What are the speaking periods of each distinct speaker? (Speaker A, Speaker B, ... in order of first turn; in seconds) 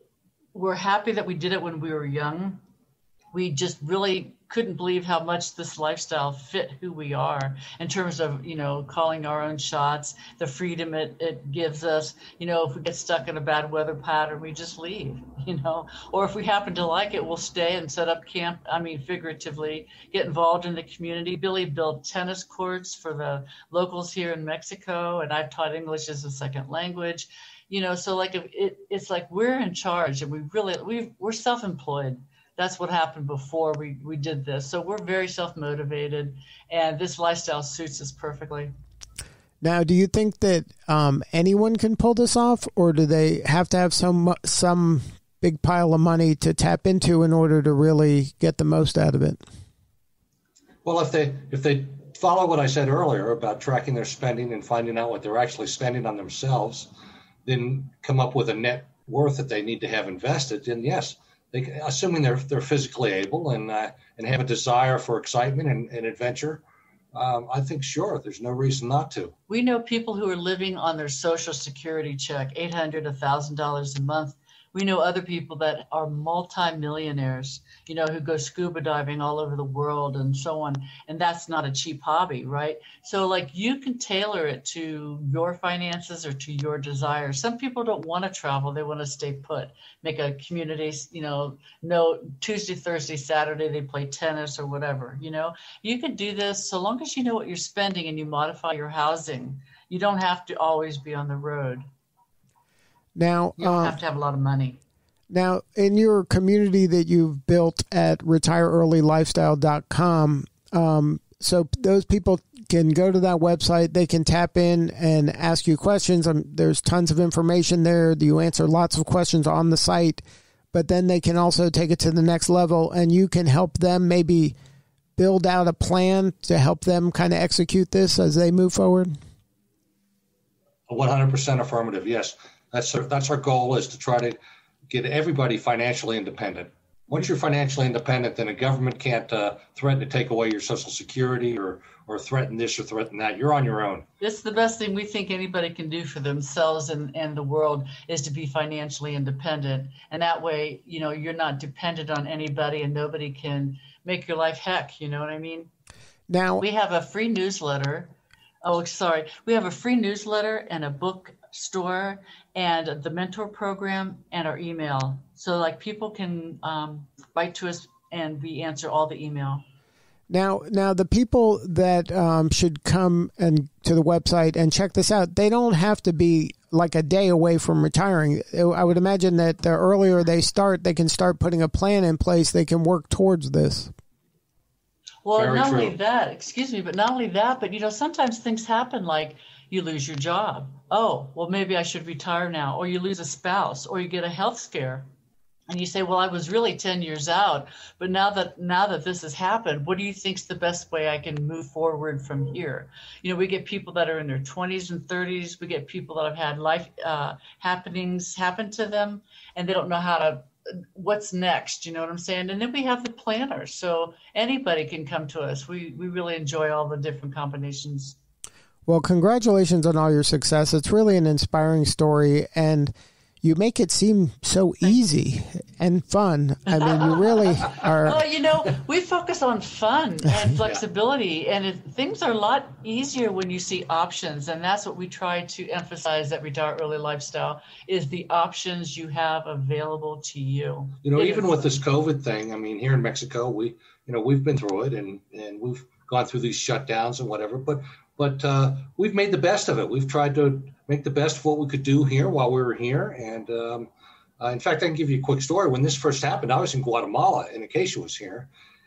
Speaker A: 0.5-2.6, 3.3-38.7, 69.5-101.8, 103.6-104.8, 144.2-155.7, 156.6-158.1, 158.6-169.6, 185.2-195.1, 195.7-218.2, 226.7-241.7
Speaker B: 39.6-49.4, 103.2-104.0, 105.3-120.2, 120.7-124.5, 125.2-129.1, 156.3-156.6, 170.3-183.9, 218.9-228.2
Speaker C: 50.8-56.9, 57.5-66.6, 67.1-69.3, 130.9-134.4, 134.9-144.1, 185.3-185.9, 241.0-253.9, 254.4-258.5